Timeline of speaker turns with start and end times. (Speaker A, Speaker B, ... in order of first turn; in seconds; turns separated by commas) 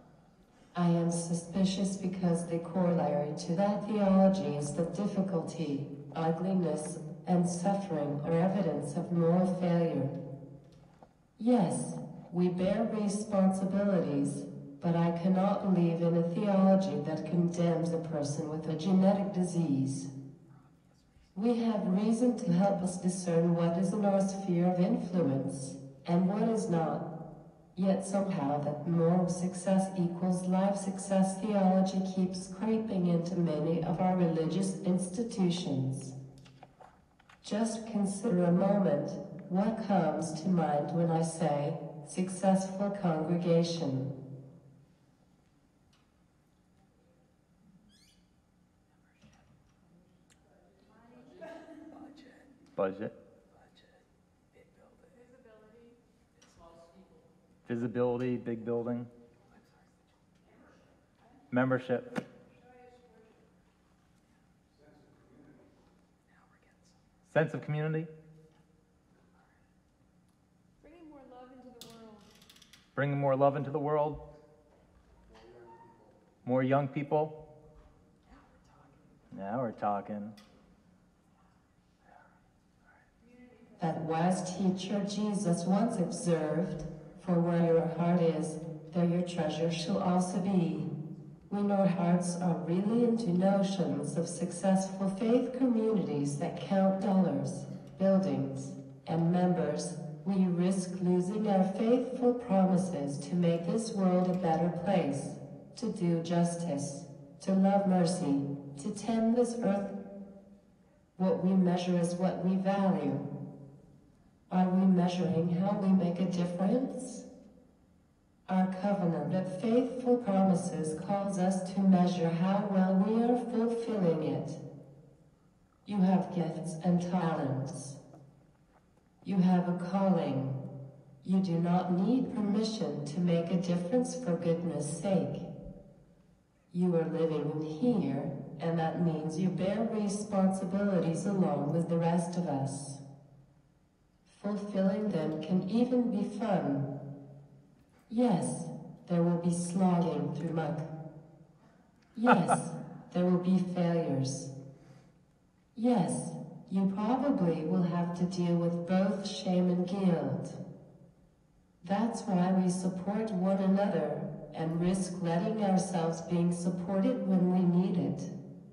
Speaker A: 0.7-10.2, Speaker A: 11.4-20.1, Speaker A: 21.3-27.1, Speaker A: 27.7-36.1, Speaker A: 37.4-44.1, Speaker B: 52.0-53.1, Speaker B: 54.5-55.2, Speaker C: 55.2-56.0, Speaker B: 57.7-59.1, Speaker B: 61.5-62.2, Speaker C: 62.8-63.2, Speaker B: 66.6-68.1, Speaker C: 70.8-72.3, Speaker B: 72.9-74.2, Speaker B: 76.4-77.3, Speaker B: 79.3-80.4, Speaker A: 83.8-90.9, Speaker A: 91.5-110.0, Speaker A: 111.2-113.3, Speaker A: 114.5-117.2, Speaker A: 118.5-124.6, Speaker A: 125.8-128.0, Speaker A: 129.2-130.6, Speaker A: 131.2-135.5, Speaker A: 136.7-143.0, Speaker A: 144.2-146.9, Speaker A: 148.1-150.9, Speaker A: 152.1-154.5, Speaker A: 155.7-160.6, Speaker A: 161.8-168.3